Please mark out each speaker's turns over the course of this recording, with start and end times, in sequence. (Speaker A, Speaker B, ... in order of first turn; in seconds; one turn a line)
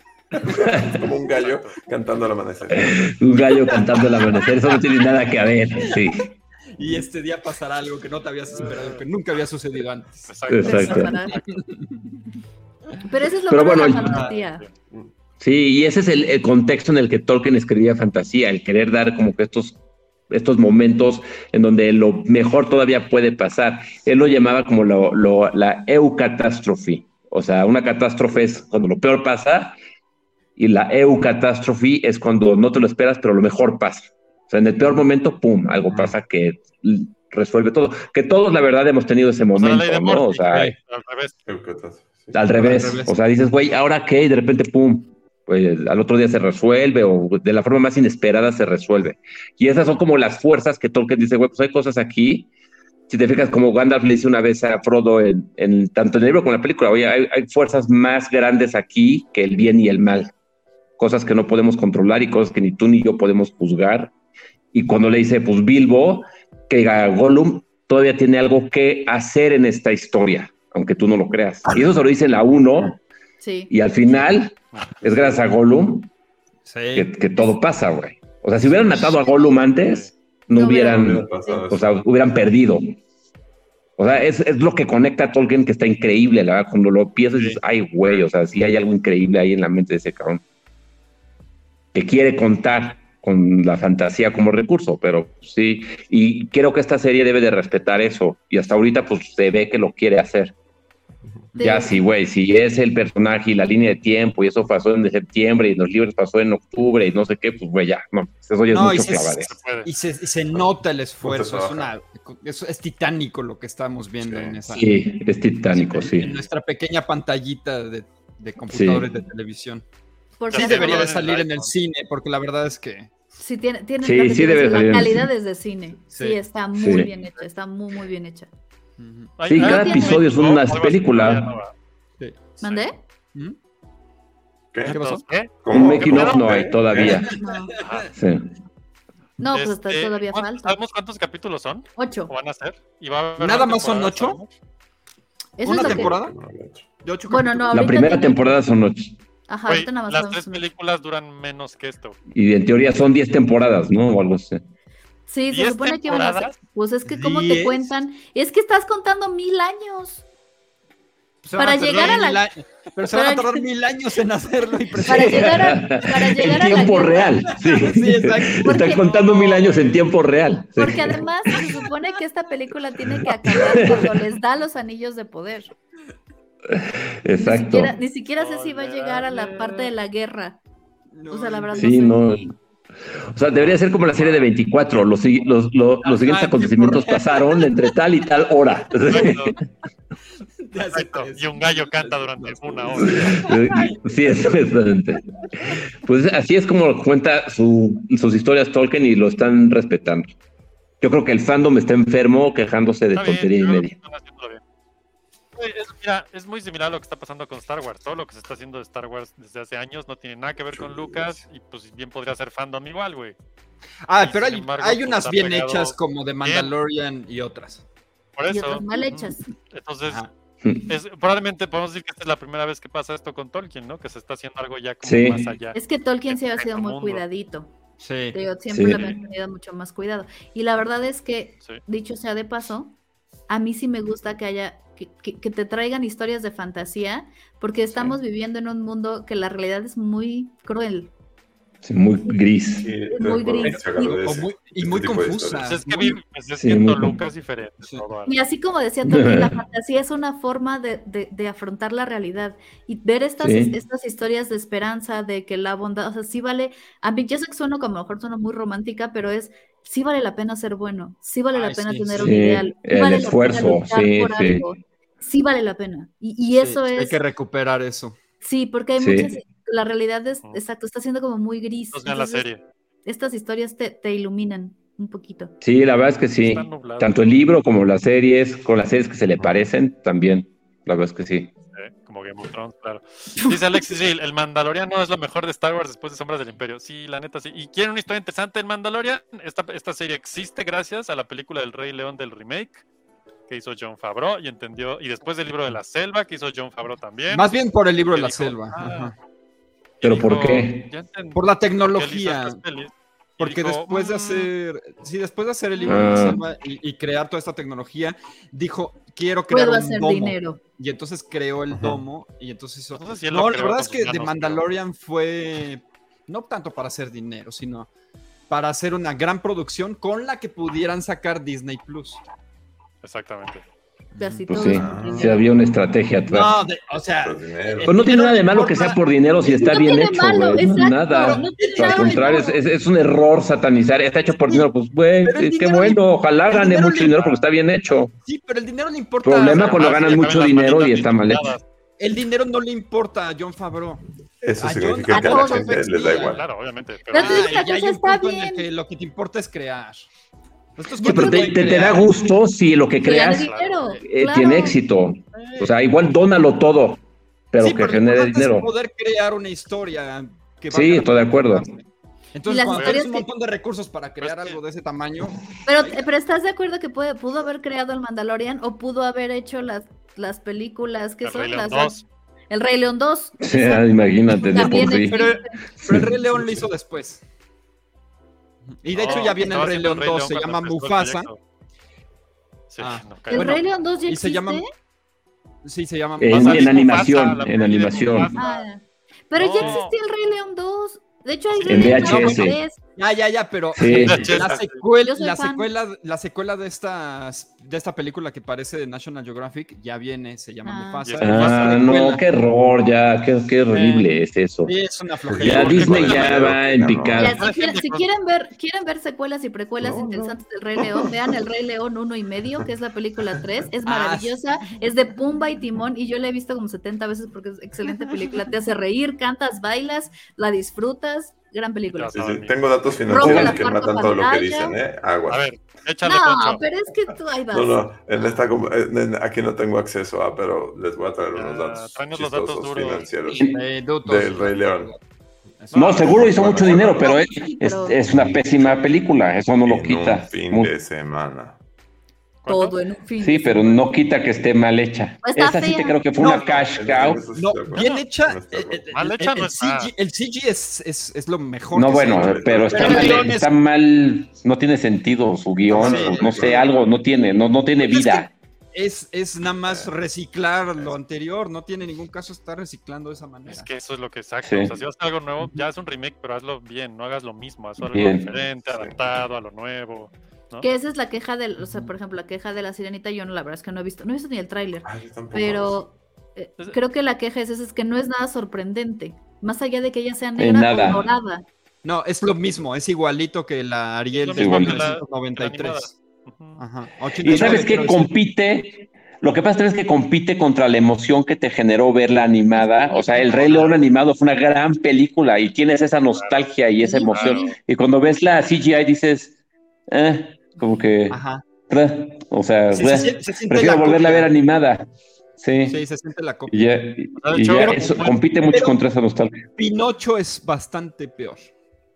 Speaker A: 0.4-3.5
Speaker B: 0.5-1.1
Speaker C: 1.2-1.9
Speaker B: 2.7-6.3
Speaker D: 3.7-4.5
Speaker D: 6.7-12.2
Speaker C: 10.3-11.2
Speaker B: 10.5-11.2
Speaker E: 10.6-11.4
Speaker E: 13.1-14.6
Speaker B: 13.5-14.3
Speaker C: 13.9-14.7
Speaker B: 15.4-19.8
Speaker B: 20.3-29.8
Speaker B: 30.6-40.7
Speaker C: 39.5-41.4
Speaker A: 41.5-42.9
Speaker B: 42.3-52.5
Speaker D: 42.5-43.1
Speaker B: 53.1-60.3
Speaker B: 61.0-64.1
Speaker B: 64.7-73.0
Speaker E: 73.4-73.7
Speaker B: 73.7-76.1
Speaker C: 74.7-75.0
Speaker D: 76.7-77.1
Speaker B: 76.9-83.0
Speaker C: 79.8-80.1
Speaker E: 80.5-81.7
Speaker A: 80.7-81.9
Speaker B: 84.0-90.4
Speaker C: 87.3-87.6
Speaker B: 91.9-100.5
Speaker D: 101.5-101.9
Speaker E: 101.6-102.0
Speaker B: 101.6-109.5
Speaker D: 108.7-114.9
Speaker C: 109.5-109.9
Speaker A: 111.2-111.9
Speaker A: 114.2-114.6
Speaker B: 114.7-116.3
Speaker D: 115.7-119.8
Speaker B: 118.7-119.1
Speaker E: 120.4-121.2
Speaker C: 120.5-121.7
Speaker D: 120.5-123.1
Speaker E: 123.4-128.5
Speaker B: 124.0-125.3
Speaker D: 126.1-126.4
Speaker B: 126.8-127.1
Speaker D: 129.0-129.3
Speaker C: 129.4-131.7
Speaker B: 129.5-131.5
Speaker E: 129.6-130.3
Speaker E: 132.6-133.0
Speaker C: 132.6-132.9
Speaker C: 134.8-136.7
Speaker D: 134.9-135.3
Speaker A: 135.6-137.3
Speaker B: 135.7-137.3
Speaker D: 137.0-138.1
Speaker E: 137.3-137.7
Speaker C: 137.8-138.1
Speaker B: 138.1-138.4
Speaker E: 139.4-140.8
Speaker C: 139.5-144.5
Speaker E: 142.0-142.3
Speaker D: 143.4-144.4
Speaker E: 145.6-146.1
Speaker D: 145.6-146.3
Speaker A: 145.7-146.9
Speaker D: 147.0-147.9
Speaker E: 147.3-148.6
Speaker B: 147.7-149.2
Speaker E: 149.5-150.7
Speaker C: 149.7-152.2
Speaker B: 152.3-154.6
Speaker E: 155.3-160.2
Speaker C: 155.5-156.6
Speaker D: 157.1-157.9
Speaker D: 161.4-165.8
Speaker E: 161.6-162.4
Speaker E: 163.1-163.7
Speaker B: 164.9-171.2
Speaker E: 165.1-167.6
Speaker D: 166.4-166.9
Speaker D: 167.5-169.4
Speaker E: 168.6-169.7
Speaker E: 170.8-175.7
Speaker D: 171.2-171.9
Speaker B: 173.2-174.1
Speaker B: 176.7-178.0
Speaker E: 177.3-180.6
Speaker C: 178.4-179.9
Speaker D: 181.1-181.9
Speaker E: 181.3-182.5
Speaker B: 181.8-182.5
Speaker B: 183.3-189.6
Speaker A: 183.5-184.4
Speaker D: 186.0-187.9
Speaker C: 189.1-189.6
Speaker D: 190.6-194.6
Speaker C: 190.9-193.5
Speaker B: 193.0-200.3
Speaker B: 201.0-203.9
Speaker C: 203.1-204.6
Speaker C: 205.6-213.3
Speaker A: 210.7-211.4
Speaker D: 214.1-217.8
Speaker C: 214.2-216.7
Speaker C: 218.3-220.2
Speaker E: 218.5-219.5
Speaker D: 220.1-220.3
Speaker B: 220.6-220.9
Speaker C: 220.9-227.2
Speaker B: 225.0-225.5
Speaker E: 225.7-227.7
Speaker D: 228.0-228.4
Speaker E: 228.3-232.9
Speaker B: 228.7-229.1
Speaker E: 233.5-241.1
Speaker B: 241.8-242.9
Speaker A: 242.8-245.7
Speaker E: 243.1-244.2
Speaker D: 244.2-246.2
Speaker C: 245.6-248.4
Speaker B: 246.6-247.2
Speaker E: 248.3-267.2
Speaker B: 249.1-249.6
Speaker B: 253.4-253.8
Speaker D: 261.5-262.4
Speaker B: 262.2-264.7
Speaker D: 266.5-268.2
Speaker E: 268.4-272.4
Speaker B: 269.0-269.3
Speaker C: 271.9-272.6
Speaker E: 273.1-275.5
Speaker B: 275.6-281.5
Speaker C: 276.4-277.3
Speaker A: 279.4-279.6
Speaker C: 281.7-292.8
Speaker C: 293.5-297.5
Speaker D: 297.3-299.1
Speaker C: 298.1-299.1
Speaker C: 300.0-304.5
Speaker B: 300.0-300.9
Speaker D: 301.3-302.6
Speaker D: 303.4-317.9
Speaker E: 305.8-306.3
Speaker B: 305.9-306.4
Speaker E: 309.5-310.6
Speaker A: 311.7-312.0
Speaker C: 312.9-314.7
Speaker D: 318.5-322.2
Speaker C: 323.0-323.6
Speaker D: 324.1-324.5
Speaker E: 324.2-325.3
Speaker B: 324.5-326.6
Speaker A: 324.6-325.4
Speaker D: 326.3-329.7
Speaker A: 327.1-328.0
Speaker B: 327.9-338.1
Speaker E: 329.5-332.6
Speaker D: 331.1-332.4
Speaker D: 335.2-337.3
Speaker D: 338.2-340.3
Speaker B: 339.2-341.5
Speaker C: 339.5-341.6
Speaker D: 342.0-344.0
Speaker A: 344.4-346.4
Speaker D: 344.6-346.4
Speaker E: 345.1-345.8
Speaker C: 346.2-347.6
Speaker E: 347.1-348.7
Speaker D: 347.1-350.1
Speaker D: 350.8-352.1
Speaker E: 351.0-351.6
Speaker B: 351.0-357.0
Speaker E: 353.0-354.8
Speaker C: 353.3-354.0
Speaker D: 355.4-355.7
Speaker B: 357.5-358.7
Speaker D: 357.6-361.8
Speaker B: 360.7-361.7
Speaker D: 362.3-366.0
Speaker E: 362.4-363.3
Speaker C: 362.7-363.0
Speaker C: 364.2-364.6
Speaker E: 365.6-371.9
Speaker C: 371.2-372.1
Speaker E: 372.5-375.6
Speaker B: 373.4-375.3
Speaker D: 374.6-377.2
Speaker B: 375.8-376.1
Speaker D: 378.7-381.3
Speaker C: 378.9-381.4
Speaker C: 382.7-383.6
Speaker D: 382.8-384.6
Speaker E: 383.3-384.7
Speaker D: 385.6-387.3
Speaker B: 386.2-388.4
Speaker C: 386.3-388.6
Speaker E: 388.4-392.8
Speaker C: 389.4-389.9
Speaker C: 391.5-392.2
Speaker B: 391.6-392.6
Speaker D: 391.9-402.2
Speaker B: 393.7-394.5
Speaker C: 393.9-394.8
Speaker E: 395.0-395.7
Speaker E: 400.6-401.1
Speaker C: 401.0-402.1
Speaker B: 401.2-404.7
Speaker D: 403.7-404.1
Speaker D: 404.6-406.2
Speaker A: 405.3-407.3
Speaker B: 405.4-407.4
Speaker C: 405.6-406.5
Speaker E: 407.1-422.1
Speaker C: 407.4-408.1
Speaker A: 409.8-410.2
Speaker A: 410.8-411.1
Speaker D: 413.9-414.4
Speaker C: 421.9-422.6
Speaker A: 422.1-425.4
Speaker E: 423.1-424.8
Speaker B: 423.1-423.6
Speaker C: 425.3-426.6
Speaker E: 426.0-427.8
Speaker A: 427.5-434.9
Speaker C: 431.3-433.1
Speaker B: 433.3-433.6
Speaker D: 433.5-434.9
Speaker D: 435.6-436.3
Speaker A: 435.7-437.2
Speaker B: 435.7-440.7
Speaker E: 437.0-438.0
Speaker A: 438.1-438.9
Speaker A: 439.6-441.6
Speaker C: 442.4-442.8
Speaker E: 442.4-443.9
Speaker B: 443.2-447.2
Speaker E: 445.2-446.0
Speaker D: 446.2-446.6
Speaker C: 446.3-446.7
Speaker A: 446.4-448.9
Speaker D: 447.3-453.5
Speaker C: 447.7-448.0
Speaker C: 448.9-449.9
Speaker B: 451.7-458.3
Speaker A: 452.0-453.3
Speaker A: 455.7-456.7
Speaker D: 455.7-456.7
Speaker D: 457.9-463.7
Speaker A: 459.6-459.9
Speaker C: 463.5-470.7
Speaker B: 464.4-464.7
Speaker B: 467.9-468.3
Speaker A: 468.7-468.9
Speaker E: 470.6-481.4
Speaker A: 474.8-475.9
Speaker B: 480.4-481.1
Speaker D: 481.8-485.9
Speaker C: 484.1-486.6
Speaker B: 484.4-484.9
Speaker D: 486.6-488.1
Speaker B: 487.2-499.4
Speaker E: 492.6-493.4
Speaker D: 493.1-493.7
Speaker C: 496.2-496.4
Speaker E: 496.8-497.5
Speaker C: 497.1-497.5
Speaker B: 499.9-504.9
Speaker D: 501.1-501.4
Speaker D: 502.7-504.3
Speaker B: 505.4-505.8
Speaker D: 505.6-506.7
Speaker B: 506.5-509.4
Speaker C: 507.2-508.2
Speaker D: 507.6-508.8
Speaker D: 509.6-511.5